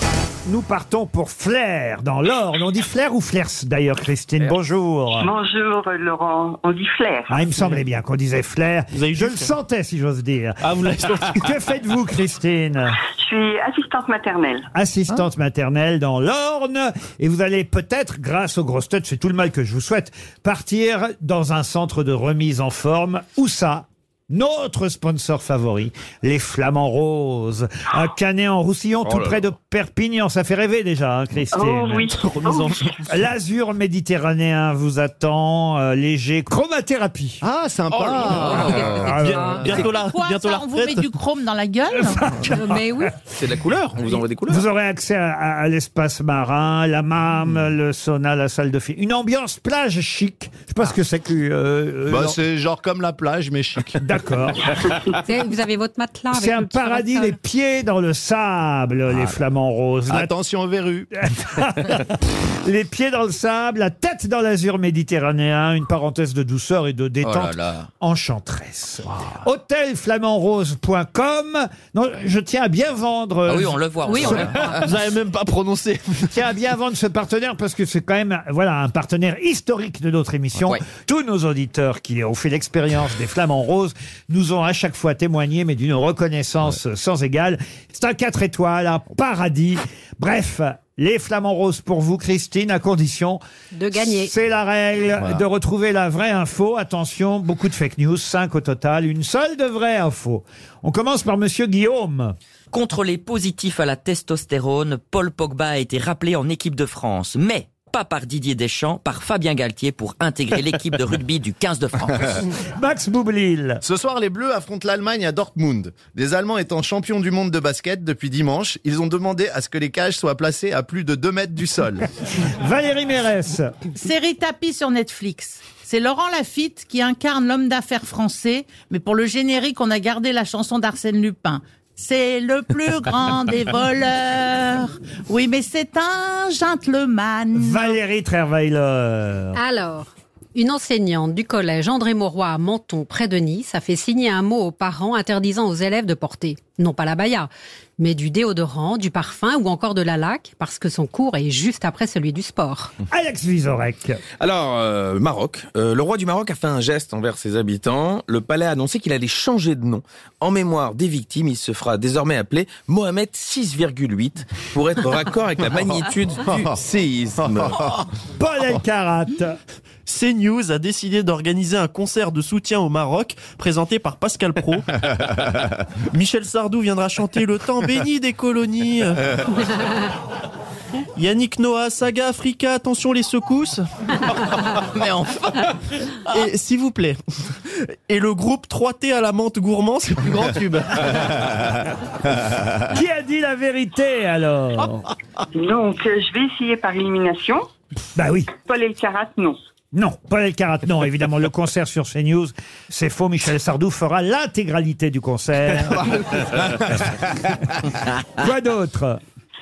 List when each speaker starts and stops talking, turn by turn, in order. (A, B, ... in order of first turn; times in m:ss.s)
0:00.5-0:05.3 A
0:05.1-0:07.4 B
0:07.3-0:10.6 A
0:08.9-0:09.5 C
0:10.6-0:11.5 C
0:11.3-0:13.0 A
0:13.0-0:14.7 B
0:14.7-0:32.2 A
0:29.0-0:29.4 D
0:31.5-0:32.7 B
0:32.2-0:33.3 C
0:33.1-0:37.4 A
0:37.4-0:38.6 E
0:37.9-0:39.7 D
0:38.1-0:38.7 F
0:38.6-0:39.6 G
0:38.9-0:39.7 A
0:39.0-0:41.1 C
0:39.9-0:42.3 H
0:42.0-0:43.0 A
0:42.5-0:43.1 G
0:43.4-0:44.6 D
0:44.5-0:52.4 A
0:52.1-0:53.9 E
0:54.0-0:54.8 A
0:55.2-0:57.4 G
0:56.3-1:00.3 A
1:00.1-1:01.1 E
1:01.1-1:14.4 A
1:07.2-1:07.9 F
1:13.5-1:14.9 F
1:14.1-1:14.8 G
1:14.6-1:16.4 C
1:16.3-1:33.4 A
1:33.7-1:34.3 G
1:33.9-1:42.3 A
1:42.7-1:52.4 F
1:52.8-1:53.8 A
1:53.9-2:02.0 E
2:02.4-2:03.8 A
2:03.9-2:17.9 H
2:17.5-2:19.6 A
2:19.5-2:32.9 G
2:33.1-2:34.2 A
2:34.4-2:47.8 D
2:48.4-2:49.6 A
2:50.1-2:59.8 C
3:01.2-3:04.9 C
3:04.9-3:05.5 F
3:06.3-3:11.5 C
3:12.8-3:15.1 A
3:15.5-3:17.7 B
3:18.1-3:18.5 A
3:18.6-3:19.6 B
3:19.9-3:27.2 A
3:28.3-3:29.2 A